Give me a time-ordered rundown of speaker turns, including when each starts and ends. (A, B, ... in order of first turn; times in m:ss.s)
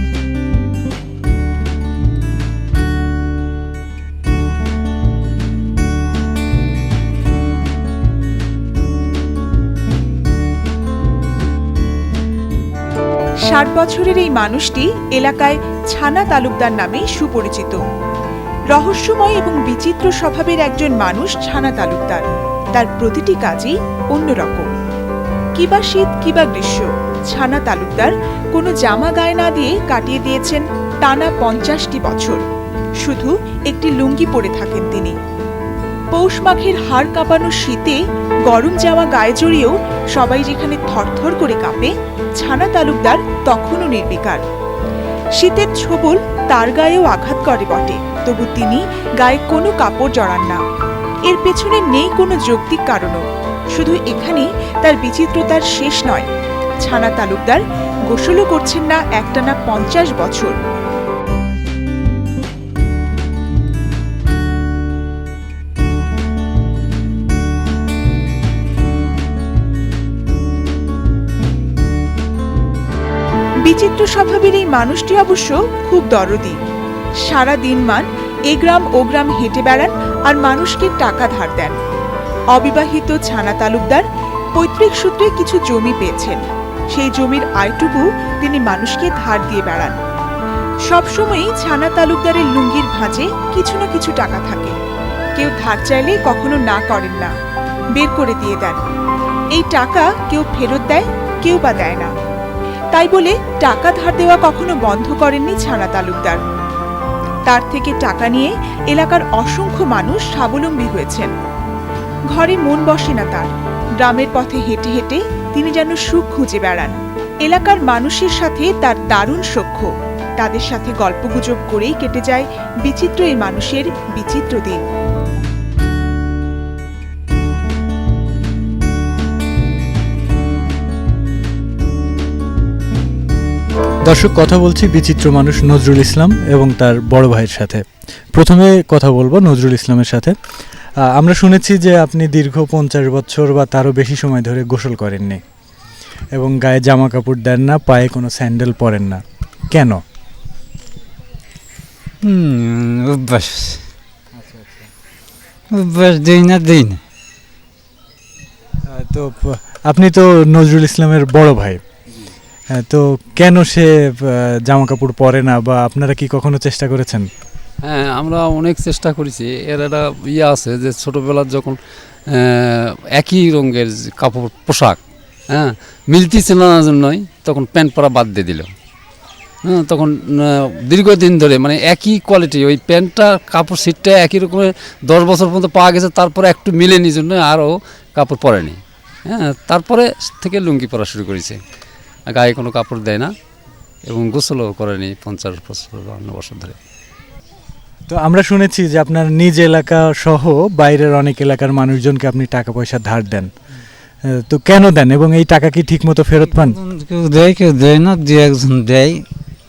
0:13.5-0:17.8 A
0:18.7-0:24.7 A
0:25.6-0:32.4 A
0:33.0-0:35.2 A
0:36.1-0:44.4 A
0:45.4-0:50.6 A
0:51.3-0:53.2 A
0:53.8-0:56.3 A
0:56.8-1:00.6 A
1:13.7-1:16.6 A
1:17.3-1:21.8 A
1:22.5-1:24.0 A
1:24.6-1:30.0 A
1:30.9-1:34.7 A
1:35.4-1:37.3 A
1:38.0-1:38.8 A
1:39.6-1:42.1 A
1:42.9-1:46.4 A
1:47.5-1:51.3 A
1:52.3-2:04.8 A
2:14.1-2:17.8 B
2:18.4-2:20.4 B
2:21.0-2:25.4 B
2:26.4-2:29.2 B
2:29.7-2:30.0 B
2:32.3-2:33.8 C
2:34.4-2:34.9 B
2:35.7-2:37.0 C
2:38.9-2:41.8 B
2:42.7-2:47.3 B
2:47.8-2:55.0 D
2:55.5-2:58.7 D
2:59.7-3:11.6 D
3:12.3-3:13.3 D
3:14.1-3:16.8 D
3:18.1-3:23.5 B
3:24.3-3:26.8 B
3:26.5-3:29.2 C